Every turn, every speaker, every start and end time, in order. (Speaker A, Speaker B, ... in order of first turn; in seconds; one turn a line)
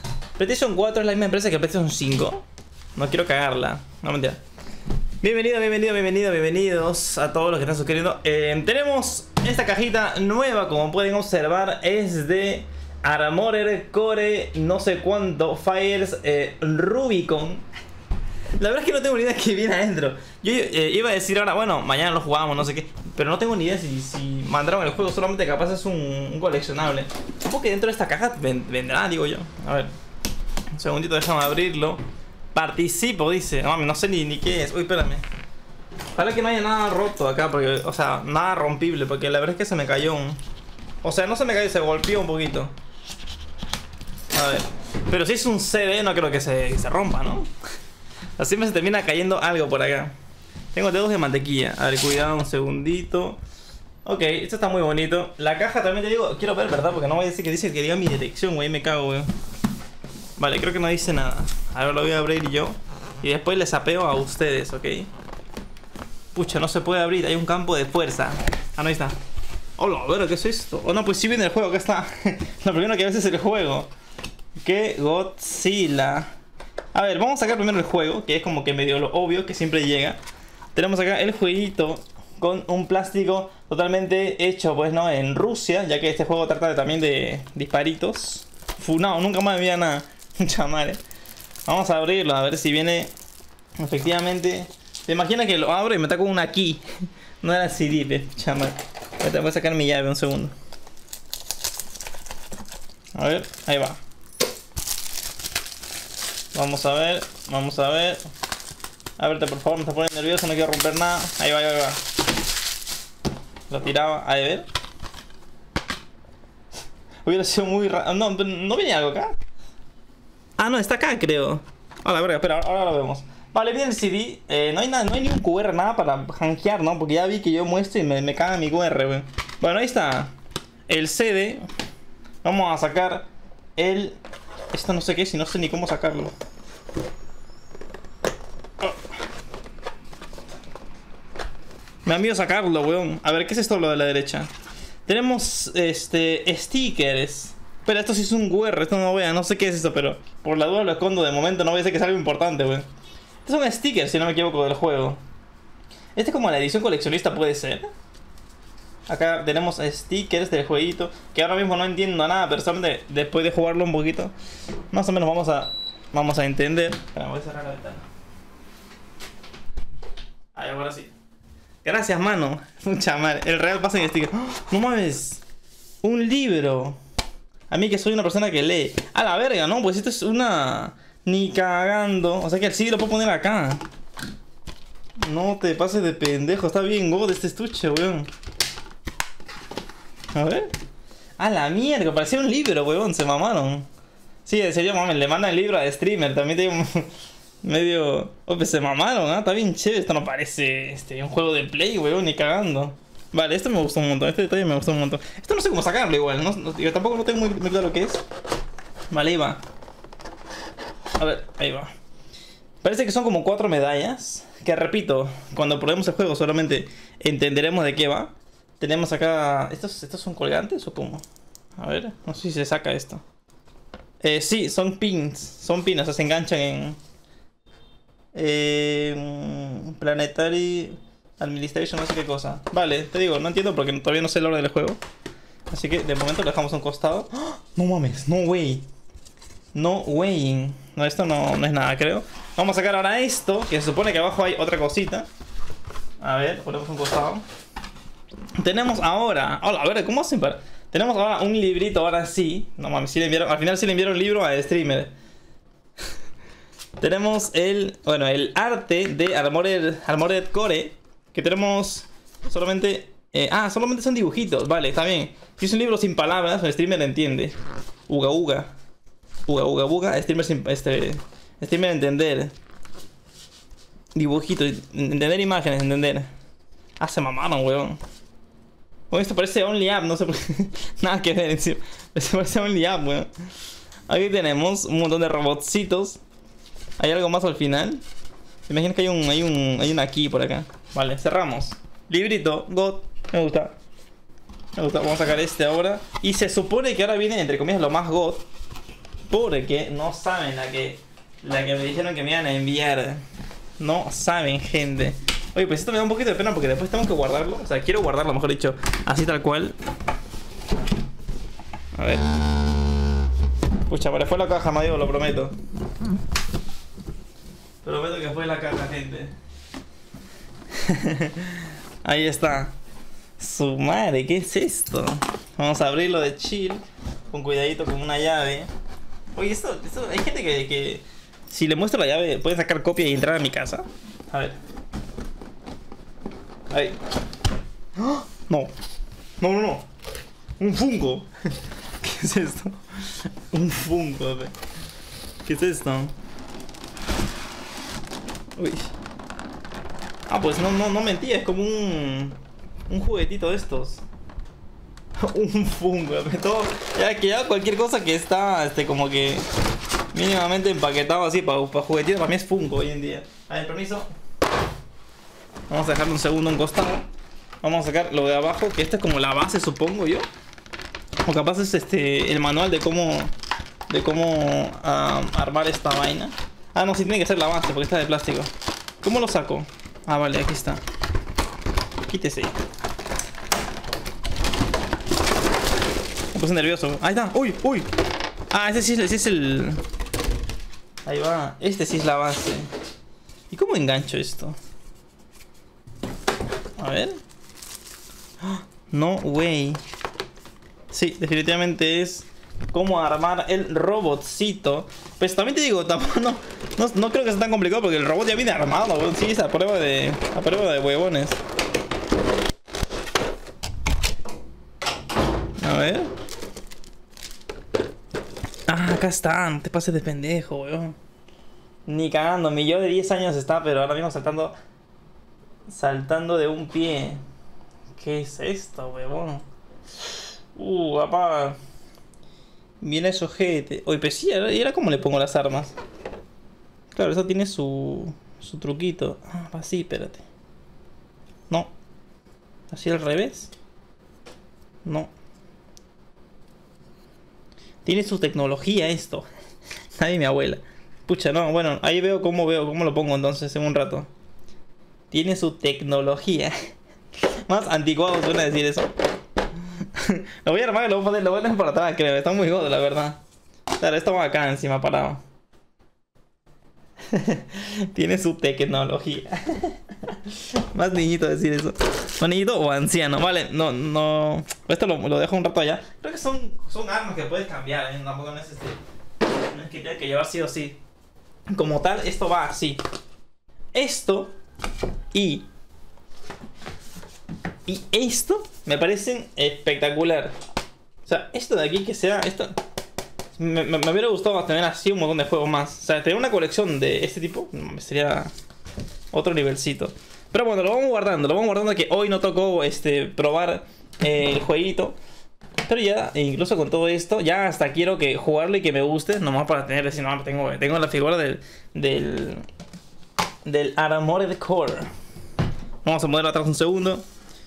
Speaker A: 0.4-2.4
Speaker A: 3.0-4.4
Speaker A: 5.2-17.6
Speaker A: 18.6-29.9
Speaker A: 30.7-32.0
Speaker A: 32.5-35.2
Speaker A: 36.1-40.4
Speaker A: 41.0-42.7
Speaker A: 44.3-47.5
Speaker A: 48.4-50.1
Speaker A: 50.7-53.4
Speaker A: 54.0-59.3
Speaker A: 60.4-65.1
Speaker A: 66.3-69.2
Speaker A: 69.8-73.9
Speaker A: 74.6-76.3
Speaker A: 76.9-80.2
Speaker A: 80.8-91.0
Speaker A: 91.7-93.1
Speaker A: 93.8-96.8
Speaker A: 97.4-100.5
Speaker A: 103.2-104.0
Speaker A: 106.5-108.2
Speaker A: 109.2-112.0
Speaker A: 113.7-114.7
Speaker A: 117.2-119.3
Speaker A: 120.6-130.3
Speaker A: 130.9-131.7
Speaker A: 132.4-133.3
Speaker A: 133.8-134.2
Speaker A: 134.7-136.3
Speaker A: 142.1-144.5
Speaker A: 145.1-152.9
Speaker A: 153.4-155.2
Speaker A: 156.2-157.9
Speaker A: 159.1-164.3
Speaker A: 164.9-168.1
Speaker A: 170.5-171.1
Speaker A: 171.8-175.4
Speaker A: 176.0-177.0
Speaker A: 177.7-183.8
Speaker A: 185.2-188.3
Speaker A: 190.3-190.7
Speaker A: 191.4-193.9
Speaker A: 194.5-197.1
Speaker A: 197.6-208.2
Speaker A: 209.1-209.6
Speaker A: 211.2-211.9
Speaker A: 212.8-221.2
Speaker A: 221.8-223.2
Speaker A: 224.2-227.0
Speaker A: 228.3-235.0
Speaker A: 235.7-238.9
Speaker A: 239.7-245.3
Speaker A: 246.2-247.4
Speaker A: 248.6-255.1
Speaker A: 257.0-267.6
Speaker A: 268.1-268.7
Speaker A: 269.5-272.5
Speaker A: 274.1-276.3
Speaker A: 277.0-278.0
Speaker A: 279.1-283.3
Speaker A: 284.1-286.2
Speaker A: 287.0-288.0
Speaker A: 288.7-293.7
Speaker A: 294.8-298.4
Speaker A: 299.3-303.2
Speaker A: 303.8-309.8
Speaker A: 311.9-312.2
Speaker A: 313.9-315.6
Speaker A: 317.8-319.3
Speaker A: 320.7-322.7
Speaker A: 323.4-328.7
Speaker A: 329.4-334.6
Speaker A: 336.7-337.0
Speaker A: 338.0-338.7
Speaker A: 339.4-339.9
Speaker A: 340.6-341.3
Speaker A: 342.0-344.5
Speaker A: 345.4-346.1
Speaker A: 348.6-348.9
Speaker A: 350.3-354.0
Speaker A: 355.2-359.4
Speaker A: 360.1-364.1
Speaker A: 365.7-367.1
Speaker A: 367.6-370.3
Speaker A: 371.2-373.3
Speaker A: 373.9-378.5
Speaker A: 379.0-380.8
Speaker A: 382.1-382.6
Speaker A: 386.3-387.9
Speaker A: 388.5-389.8
Speaker A: 391.1-392.7
Speaker A: 393.5-394.6
Speaker A: 396.8-397.2
Speaker A: 398.4-399.8
Speaker A: 400.9-411.4
Speaker A: 415.6-416.1
Speaker A: 418.7-420.9
Speaker A: 421.9-424.6
Speaker A: 425.7-427.2
Speaker A: 427.9-429.4
Speaker A: 430.1-431.6
Speaker A: 432.8-435.8
Speaker A: 436.9-440.2
Speaker A: 442.7-443.5
Speaker A: 444.9-445.1
Speaker A: 447.9-449.3
Speaker A: 450.0-454.1
Speaker A: 455.1-456.5
Speaker A: 457.5-458.9
Speaker A: 459.8-463.2
Speaker A: 463.8-465.2
Speaker A: 467.1-478.8
Speaker A: 479.5-480.8
Speaker A: 481.5-482.8
Speaker A: 483.7-484.4
Speaker A: 485.1-485.4
Speaker A: 487.7-490.3
Speaker A: 491.0-492.6
Speaker A: 493.4-498.3
Speaker A: 499.1-504.9
Speaker A: 505.7-512.4
Speaker A: 513.5-514.9
Speaker A: 515.8-517.0